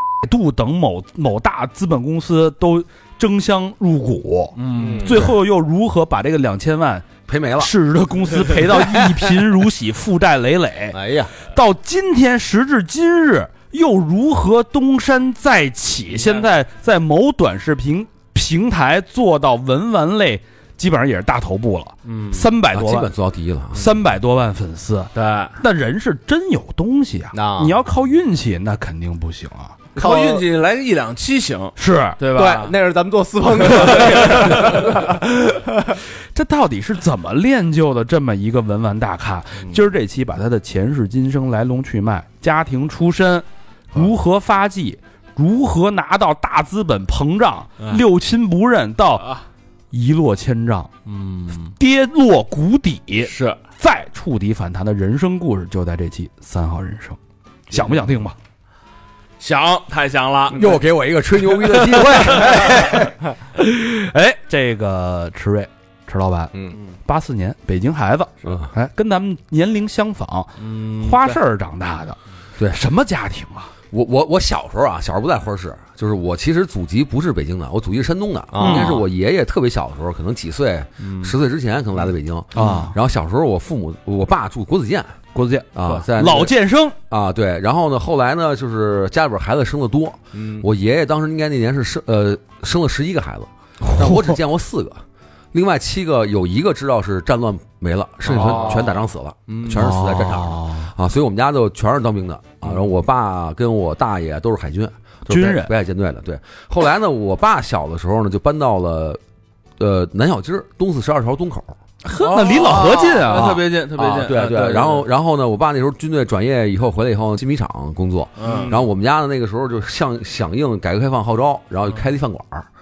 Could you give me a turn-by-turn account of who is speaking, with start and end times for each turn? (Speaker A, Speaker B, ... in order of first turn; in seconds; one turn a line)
Speaker A: 0.2-23.1
Speaker B: 4.6-5.2
Speaker C: 4.7-5.2
Speaker D: 7.3-7.7
Speaker D: 8.7-9.3
Speaker C: 10.9-11.3
Speaker B: 22.1-22.4
Speaker D: 22.7-23.9
Speaker A: 23.7-29.8
Speaker B: 25.1-25.6
Speaker C: 27.3-27.8
Speaker C: 30.0-30.4
Speaker B: 30.0-32.8
Speaker A: 31.8-32.2
Speaker C: 32.3-35.2
Speaker B: 33.8-34.7
Speaker A: 36.3-49.3
Speaker A: 49.9-50.9
Speaker B: 51.1-51.7
Speaker A: 51.8-57.2
Speaker B: 53.2-53.6
Speaker A: 57.7-58.4
Speaker B: 59.4-60.8
Speaker D: 60.5-63.1
Speaker A: 63.6-66.5
Speaker A: 67.0-72.2
Speaker D: 68.4-68.7
Speaker B: 70.6-71.4
Speaker A: 72.7-73.7
Speaker D: 73.9-85.2
Speaker C: 78.5-79.0
Speaker A: 78.6-79.0
Speaker B: 81.0-81.3
Speaker A: 82.5-83.0
Speaker A: 85.3-87.0
Speaker D: 85.8-86.5
Speaker D: 87.1-95.0
Speaker C: 90.3-90.7
Speaker A: 93.9-94.4
Speaker D: 95.5-109.2
Speaker C: 98.3-98.9
Speaker B: 98.3-98.8
Speaker C: 99.5-99.8
Speaker A: 99.7-100.9
Speaker A: 105.3-105.7
Speaker D: 109.8-111.8
Speaker A: 112.0-113.5
Speaker B: 112.2-115.0
Speaker D: 113.3-122.7
Speaker B: 118.4-118.8
Speaker C: 118.4-118.8